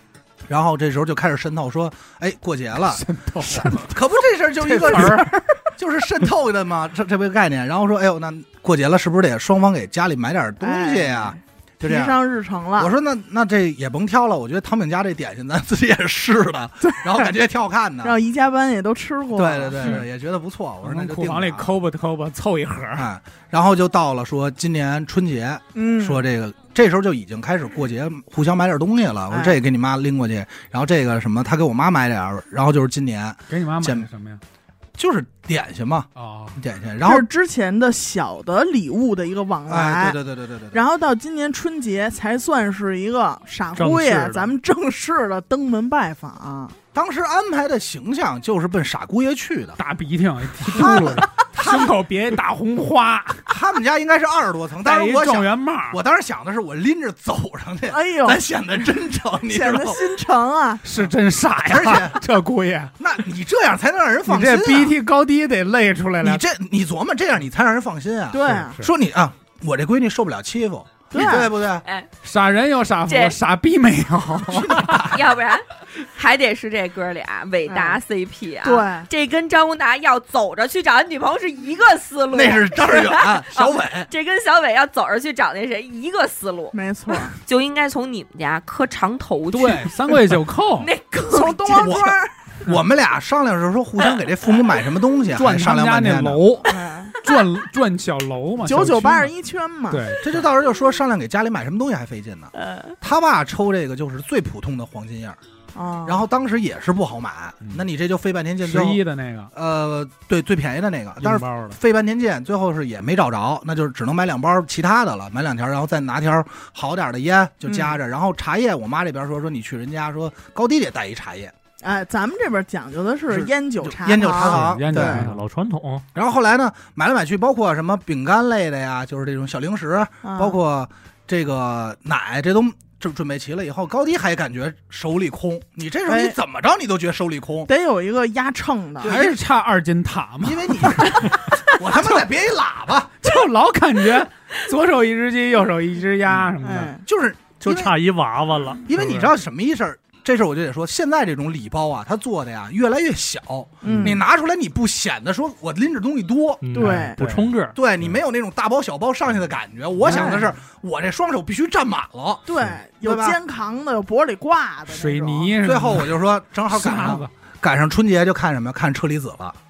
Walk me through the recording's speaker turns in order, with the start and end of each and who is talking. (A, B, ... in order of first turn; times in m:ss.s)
0:00.5-0:12.2 A
0:02.9-0:03.9 B
0:04.6-0:05.4 B
0:10.6-0:12.9 C
0:12.8-0:18.2 A
0:18.0-0:20.0 C
0:19.3-0:21.7 A
0:20.8-0:23.1 B
0:23.0-0:34.1 A
0:25.7-0:26.2 C
0:29.3-0:29.6 C
0:33.5-0:34.4 B
0:35.0-0:37.3 A
0:36.2-0:36.6 B
0:37.0-0:40.2 C
0:39.7-0:40.8 A
0:40.7-0:46.8 C
0:43.8-0:44.5 D
0:46.9-0:49.8 A
0:49.8-0:53.5 B
0:50.6-0:52.0 A
0:50.8-0:51.2 C
0:53.5-1:00.1 A
0:54.8-0:56.0 B
0:57.9-0:58.4 C
0:59.5-1:00.8 C
1:00.8-1:02.9 B
1:01.6-1:02.2 A
1:03.0-1:05.0 A
1:04.2-1:06.4 B
1:06.2-1:11.8 A
1:08.3-1:08.8 C
1:08.5-1:08.9 B
1:11.1-1:11.5 C
1:12.2-1:15.0 B
1:13.1-1:13.4 E
1:14.5-1:15.3 A
1:15.1-1:26.8 E
1:17.7-1:18.0 C
1:18.6-1:19.1 C
1:22.3-1:24.1 A
1:26.7-1:27.4 C
1:27.3-1:32.0 E
1:29.5-1:30.9 B
1:31.3-1:32.3 C
1:31.8-1:36.4 A
1:34.1-1:34.7 E
1:35.3-1:39.3 B
1:36.7-1:37.2 C
1:38.6-1:40.0 C
1:39.9-1:40.4 B
1:40.2-1:45.4 A
1:42.6-1:42.9 E
1:45.7-1:46.2 C
1:46.0-1:49.0 A
1:48.6-1:49.5 B
1:49.5-2:01.5 A
1:51.2-1:51.8 B
1:57.7-1:58.0 C
2:01.8-2:04.6 C
2:03.3-2:05.2 A
2:04.4-2:05.4 B
2:04.9-2:06.0 D
2:06.1-2:17.7 A
2:10.2-2:10.6 C
2:16.1-2:16.4 C
2:17.7-2:19.1 C
2:19.0-2:19.4 A
2:19.0-2:21.5 B
2:20.4-2:23.1 A
2:23.2-2:27.0 B
2:26.6-2:27.0 C
2:27.0-2:27.9 A
2:27.6-2:28.9 D
2:28.9-2:36.6 A
2:33.8-2:34.2 C
2:33.8-2:34.2 B
2:36.6-2:37.8 D
2:36.7-2:37.2 C
2:36.8-2:37.5 B
2:37.7-2:43.4 A
2:40.0-2:40.5 B
2:40.1-2:40.4 C
2:42.4-2:45.6 C
2:44.9-2:46.2 B
2:45.6-2:49.6 A
2:46.7-2:47.3 B